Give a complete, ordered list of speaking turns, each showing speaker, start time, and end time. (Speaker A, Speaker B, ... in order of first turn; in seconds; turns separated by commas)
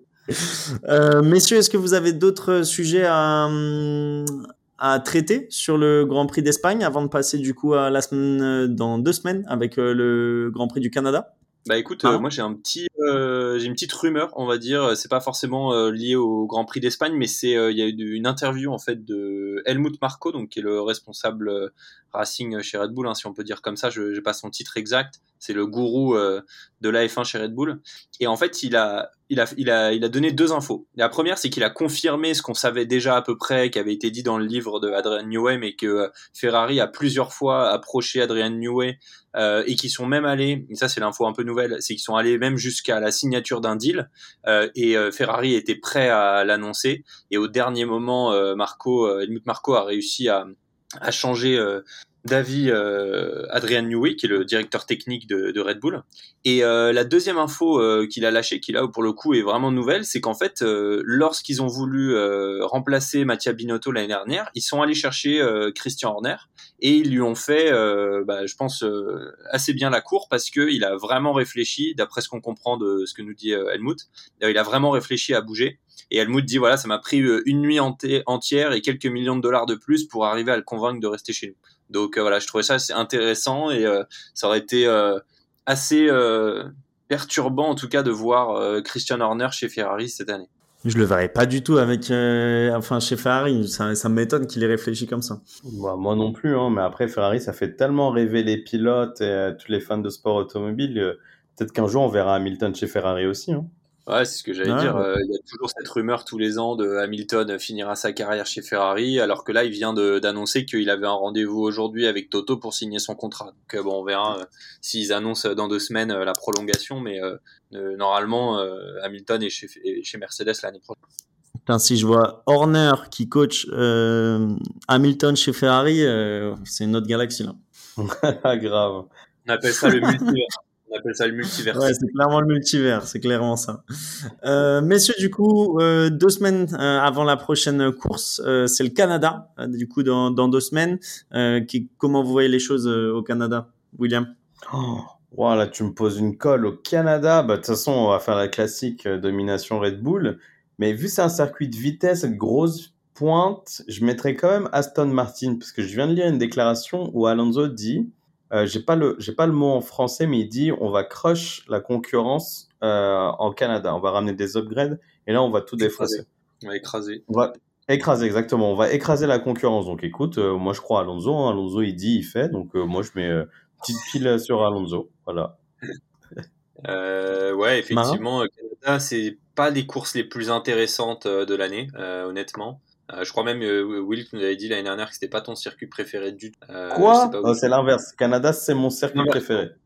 Speaker A: 0.3-11.3, Speaker B: 11.7-90.5, Speaker A: 90.8-95.4, Speaker C: 95.7-103.7, Speaker B: 104.1-121.0, Speaker A: 104.6-105.0, Speaker A: 121.7-127.6, Speaker C: 128.0-129.1, Speaker B: 129.4-131.9, Speaker A: 131.7-133.8, Speaker A: 134.4-144.3, Speaker C: 144.7-166.2, Speaker B: 165.8-167.2, Speaker C: 167.3-175.6, Speaker B: 176.9-187.7, Speaker C: 177.9-178.2, Speaker C: 186.9-189.7, Speaker B: 189.1-189.4